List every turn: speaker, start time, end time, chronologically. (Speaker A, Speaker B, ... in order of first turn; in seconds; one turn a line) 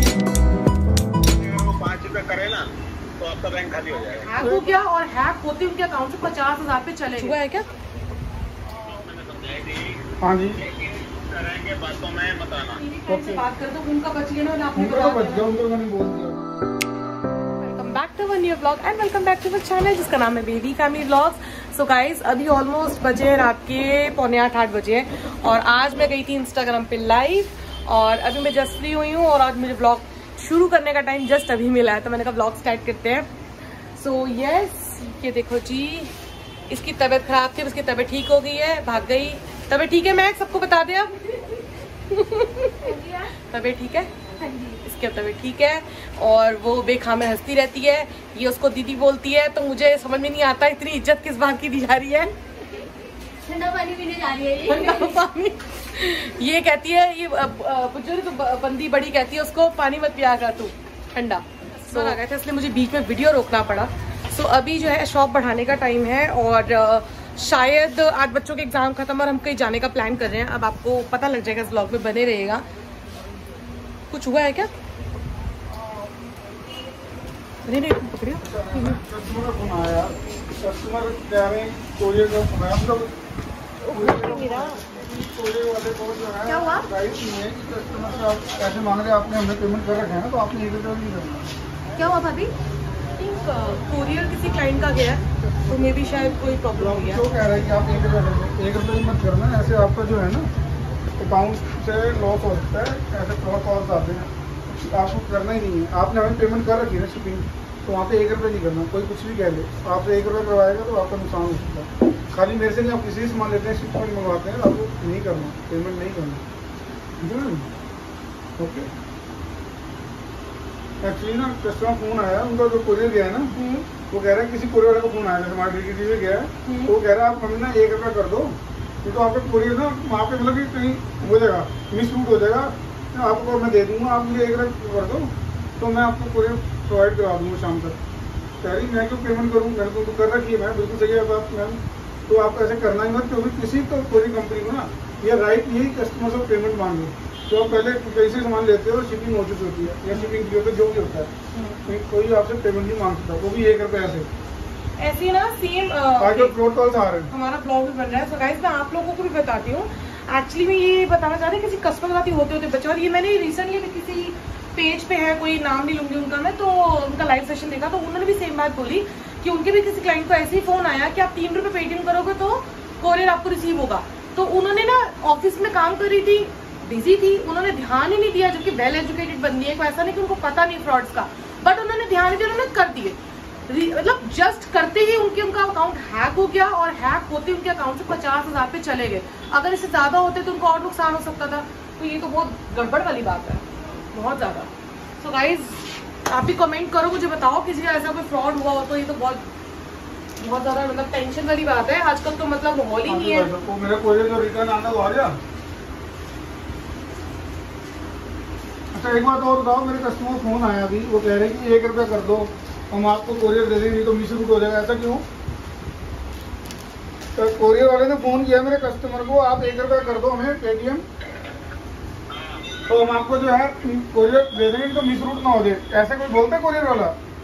Speaker A: 1.3-2.6
Speaker A: 3.2-4.3
Speaker B: 4.2-7.7
Speaker C: 4.4-4.7
Speaker A: 8.7-10.0
Speaker C: 10.2-10.6
Speaker A: 10.6-12.8
Speaker B: 12.8-15.5
Speaker C: 13.1-13.4
Speaker C: 14.7-16.4
Speaker B: 17.6-33.3
Speaker B: 33.9-36.1
Speaker B: 36.7-52.3
Speaker D: 42.9-43.2
Speaker D: 53.4-55.2
Speaker B: 54.6-72.6
Speaker B: 74.1-74.7
Speaker C: 75.7-76.1
Speaker B: 77.7-79.0
Speaker C: 78.4-83.2
Speaker B: 83.8-84.8
Speaker C: 83.9-91.5
Speaker B: 86.5-86.9
Speaker B: 91.9-92.5
Speaker B: 93.2-97.3
Speaker C: 96.8-100.5
Speaker C: 101.2-104.3
Speaker C: 104.9-116.4
Speaker C: 117.2-117.7
Speaker C: 118.6-118.9
Speaker C: 121.0-123.5
Speaker B: 123.5-123.8
Speaker C: 124.1-138.0
Speaker B: 126.6-126.9
Speaker C: 138.6-151.3
Speaker B: 151.5-151.8
Speaker C: 151.8-154.3
Speaker B: 155.0-156.6
Speaker C: 156.2-157.3
Speaker B: 157.3-199.5
Speaker B: 200.4-203.5
Speaker C: 203.1-205.4
Speaker C: 208.9-215.2
Speaker C: 217.3-221.0
Speaker A: 222.3-222.8
Speaker C: 222.9-227.2